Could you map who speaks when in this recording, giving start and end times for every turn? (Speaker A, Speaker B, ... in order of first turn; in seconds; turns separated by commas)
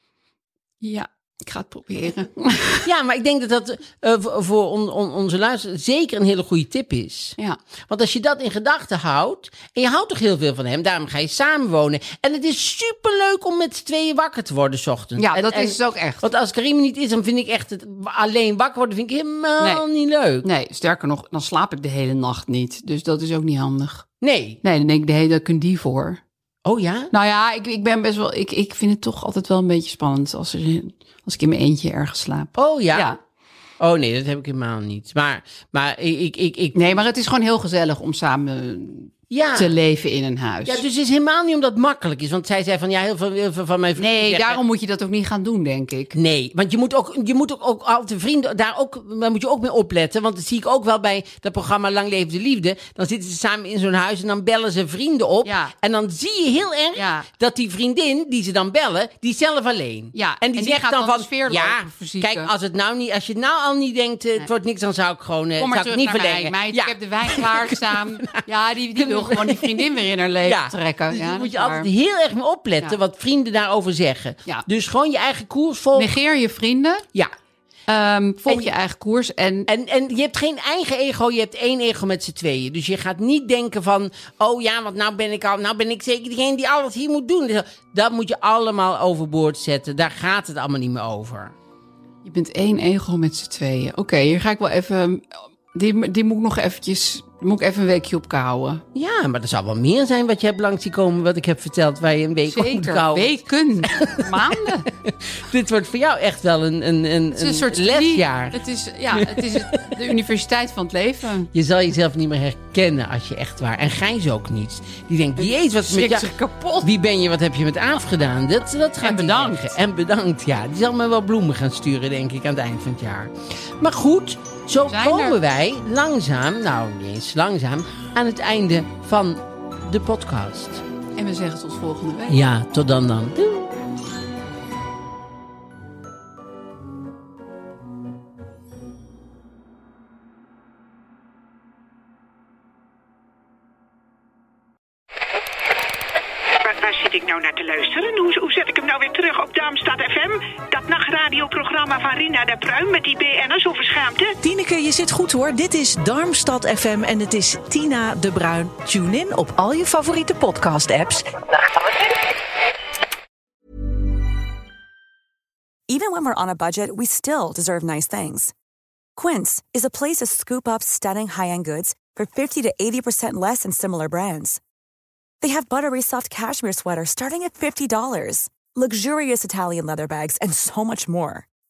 Speaker A: 0.8-2.9, Speaker B: 2.8-7.4, Speaker B: 7.9-20.5, Speaker A: 15.2-16.3, Speaker A: 20.4-24.1, Speaker B: 24.2-24.6, Speaker A: 24.6-26.2, Speaker B: 26.6-27.1, Speaker A: 27.1-33.2, Speaker B: 32.5-33.1, Speaker B: 33.8-37.0, Speaker A: 36.7-40.8, Speaker B: 39.3-39.7, Speaker B: 40.6-44.6, Speaker A: 44.0-46.1, Speaker B: 46.1-68.4, Speaker A: 55.4-55.7, Speaker A: 57.0-57.3, Speaker A: 60.1-62.5, Speaker A: 65.6-71.9, Speaker B: 69.0-76.1, Speaker A: 76.0-77.1, Speaker A: 77.9-79.7, Speaker B: 78.5-78.7, Speaker B: 79.7-91.5, Speaker A: 92.2-98.8, Speaker B: 98.9-110.1, Speaker A: 102.5-104.9, Speaker A: 107.3-111.5, Speaker B: 111.5-116.3, Speaker A: 115.4-116.9, Speaker B: 116.8-130.8, Speaker A: 119.0-119.7, Speaker A: 124.8-125.4, Speaker A: 131.2-132.4, Speaker B: 132.3-133.7, Speaker C: 146.6-154.4, Speaker D: 154.4-161.9, Speaker E: 165.9-168.5, Speaker E: 169.2-174.6, Speaker E: 175.4-181.5